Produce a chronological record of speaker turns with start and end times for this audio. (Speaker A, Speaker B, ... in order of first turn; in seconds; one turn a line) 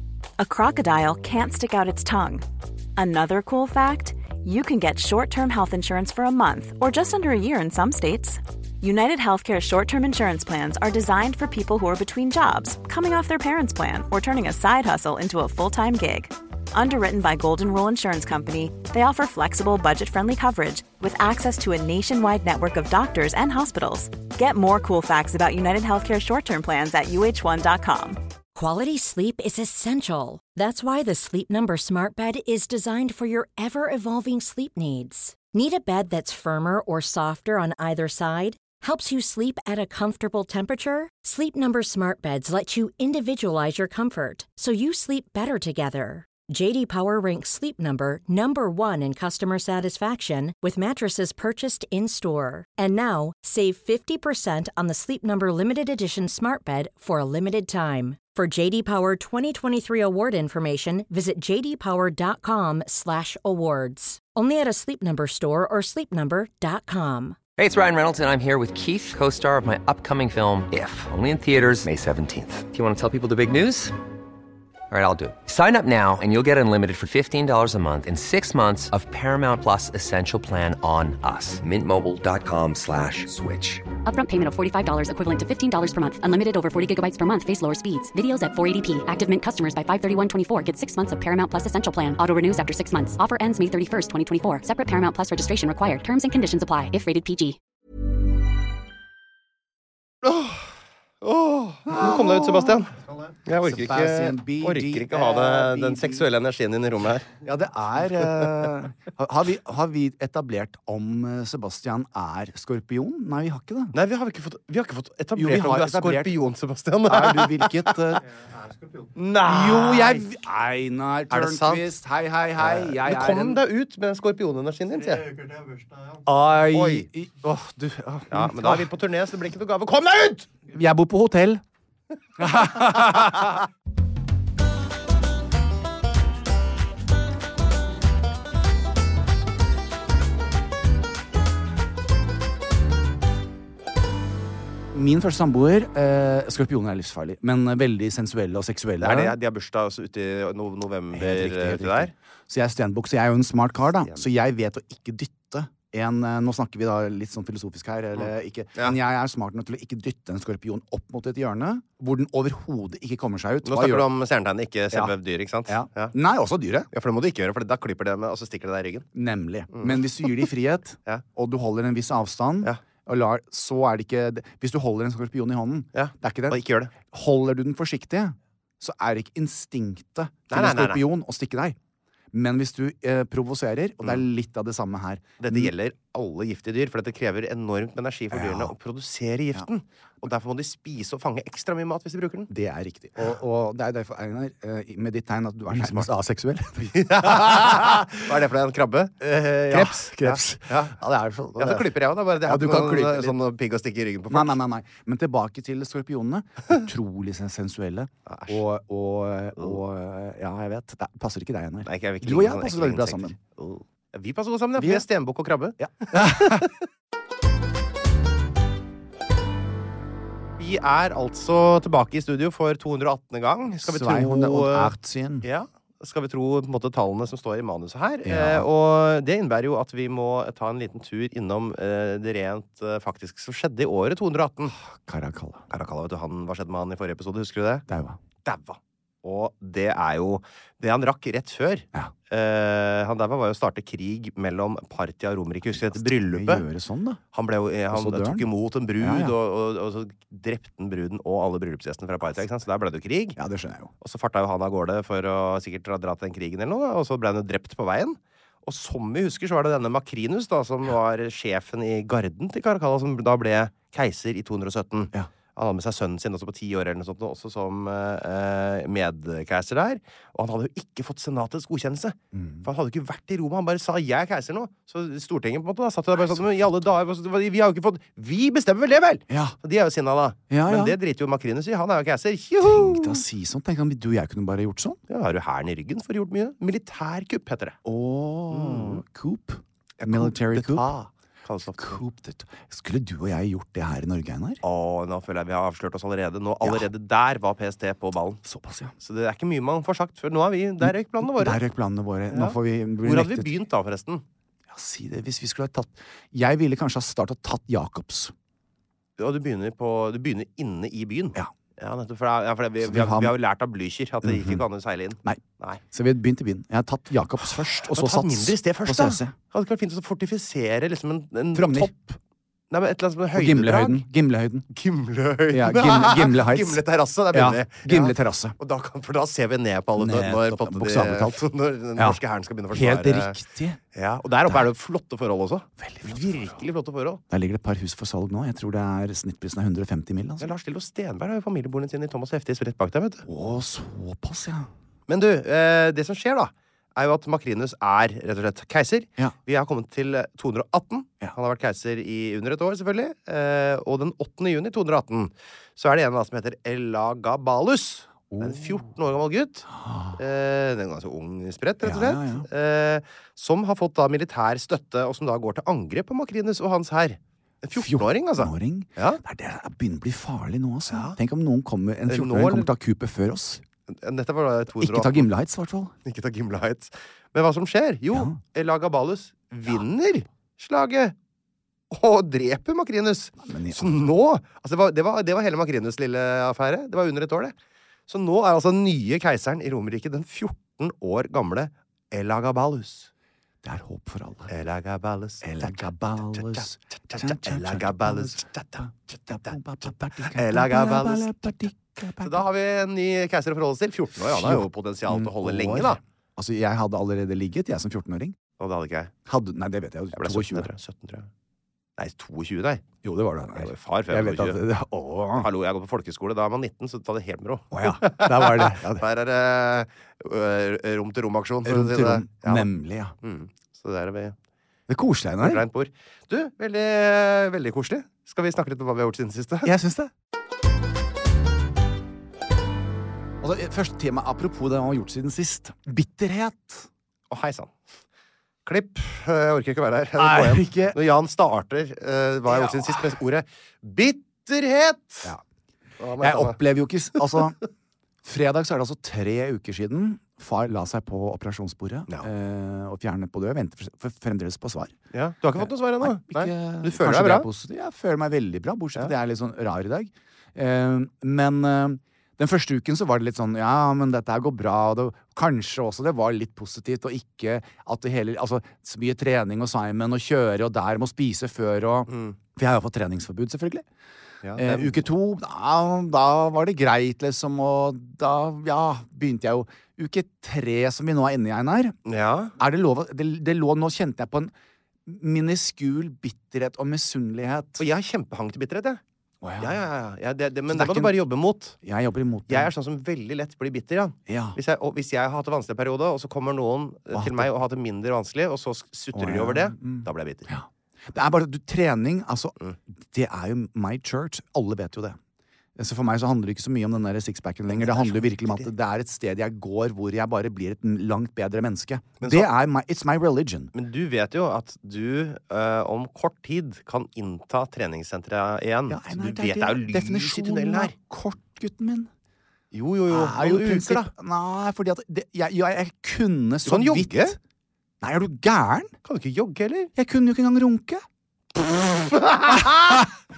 Speaker A: 0.4-2.4
Speaker A: 3.0-28.2
Speaker B: 28.6-67.4
Speaker C: 67.6-74.0
Speaker C: 74.9-83.9
Speaker D: 84.0-97.6
Speaker E: 100.2-102.9
Speaker F: 101.8-102.8
Speaker E: 103.4-107.3
Speaker F: 103.6-106.2
Speaker F: 107.4-113.9
Speaker E: 108.4-108.7
Speaker E: 113.9-118.0
Speaker F: 115.3-116.3
Speaker F: 117.0-118.2
Speaker E: 119.2-120.2
Speaker F: 119.4-123.6
Speaker E: 121.3-121.9
Speaker E: 122.6-125.6
Speaker F: 126.2-128.9
Speaker E: 126.7-127.1
Speaker E: 128.3-130.5
Speaker F: 130.7-131.6
Speaker F: 132.4-133.5
Speaker E: 132.6-133.5
Speaker F: 144.9-149.3
Speaker E: 149.0-152.1
Speaker F: 151.1-164.1
Speaker E: 158.2-159.0
Speaker E: 163.7-166.1
Speaker F: 165.7-166.9
Speaker E: 166.9-169.1
Speaker F: 169.1-181.8
Speaker E: 169.7-170.5
Speaker E: 175.9-176.9
Speaker E: 180.5-181.0
Speaker F: 182.3-185.7
Speaker E: 185.4-192.5
Speaker F: 188.3-188.7
Speaker F: 192.5-198.3
Speaker E: 195.7-196.1
Speaker E: 196.9-200.9
Speaker F: 199.7-203.4
Speaker E: 201.6-204.6
Speaker F: 204.3-213.3
Speaker E: 208.3-208.6
Speaker E: 211.8-216.8
Speaker F: 214.8-215.0
Speaker F: 215.8-216.7
Speaker E: 220.6-234.8
Speaker F: 223.8-225.5
Speaker F: 228.2-228.7
Speaker F: 234.7-235.6
Speaker E: 235.7-237.8
Speaker F: 237.9-238.2
Speaker E: 238.4-246.7
Speaker F: 245.7-247.2
Speaker E: 247.3-253.4
Speaker F: 247.9-248.5
Speaker F: 249.0-249.3
Speaker F: 253.4-253.9
Speaker E: 254.0-283.2
Speaker F: 272.3-272.6
Speaker F: 279.3-279.6
Speaker F: 280.5-280.9
Speaker F: 282.6-285.0
Speaker E: 285.1-287.8
Speaker F: 287.8-291.1
Speaker E: 288.5-289.0
Speaker E: 290.0-290.9
Speaker E: 291.4-292.0
Speaker F: 291.8-294.6
Speaker E: 294.6-298.4
Speaker F: 296.6-296.9
Speaker F: 298.4-298.9
Speaker E: 299.0-301.6
Speaker F: 300.8-303.5
Speaker E: 302.3-304.2
Speaker F: 304.7-308.3
Speaker E: 309.2-315.8
Speaker F: 312.8-313.3
Speaker F: 314.2-314.6
Speaker F: 315.2-319.3
Speaker E: 317.4-321.9
Speaker F: 321.5-322.2
Speaker E: 322.7-324.1
Speaker F: 323.3-324.6
Speaker E: 324.7-333.4
Speaker F: 325.5-328.6
Speaker F: 330.0-331.4
Speaker F: 332.7-333.8
Speaker E: 333.9-337.2
Speaker F: 335.8-336.6
Speaker F: 337.3-340.5
Speaker E: 340.4-343.2
Speaker F: 343.2-344.7
Speaker E: 345.1-369.2
Speaker F: 358.3-358.8
Speaker F: 359.7-360.2
Speaker F: 361.8-362.5
Speaker F: 367.7-373.6
Speaker E: 370.9-371.2
Speaker E: 372.1-372.7
Speaker E: 373.9-375.3
Speaker F: 374.8-375.9
Speaker E: 376.1-381.1
Speaker F: 378.1-378.4
Speaker E: 381.9-387.5
Speaker F: 383.4-384.1
Speaker E: 388.1-393.1
Speaker F: 393.6-394.5
Speaker E: 394.5-399.6
Speaker F: 395.4-402.4
Speaker E: 400.3-406.0
Speaker F: 404.2-408.4
Speaker E: 408.6-409.1
Speaker F: 409.3-410.7
Speaker E: 410.1-411.3
Speaker E: 412.0-412.8
Speaker F: 413.0-415.5
Speaker E: 413.5-414.6
Speaker E: 415.3-422.7
Speaker F: 417.7-419.0
Speaker F: 421.6-423.1
Speaker E: 423.2-424.4
Speaker F: 424.9-425.6
Speaker E: 425.4-429.7
Speaker F: 429.6-430.1
Speaker F: 433.4-436.9
Speaker E: 437.3-437.9
Speaker E: 438.6-445.4
Speaker F: 440.2-441.0
Speaker F: 442.5-443.1
Speaker E: 446.0-446.6
Speaker F: 446.2-447.6
Speaker F: 448.2-454.9
Speaker E: 455.1-457.5
Speaker F: 455.6-473.9
Speaker E: 472.1-472.4
Speaker E: 474.4-475.0
Speaker F: 474.6-482.0
Speaker E: 482.1-482.6
Speaker F: 482.6-484.5
Speaker F: 485.1-487.8
Speaker E: 487.8-489.0
Speaker F: 489.4-489.8
Speaker E: 489.6-491.8
Speaker F: 490.7-491.2
Speaker F: 491.8-492.7
Speaker E: 492.5-500.5
Speaker F: 494.3-494.6
Speaker F: 497.1-497.6
Speaker F: 499.1-502.6
Speaker F: 503.1-505.2
Speaker F: 505.8-513.7
Speaker E: 507.7-508.7
Speaker E: 512.2-512.5
Speaker E: 513.7-520.9
Speaker F: 518.9-522.1
Speaker E: 522.7-524.1
Speaker F: 523.1-527.4
Speaker E: 526.6-527.4
Speaker F: 528.0-528.9
Speaker E: 529.0-529.9
Speaker F: 530.0-531.0
Speaker F: 531.5-533.1
Speaker E: 532.0-533.1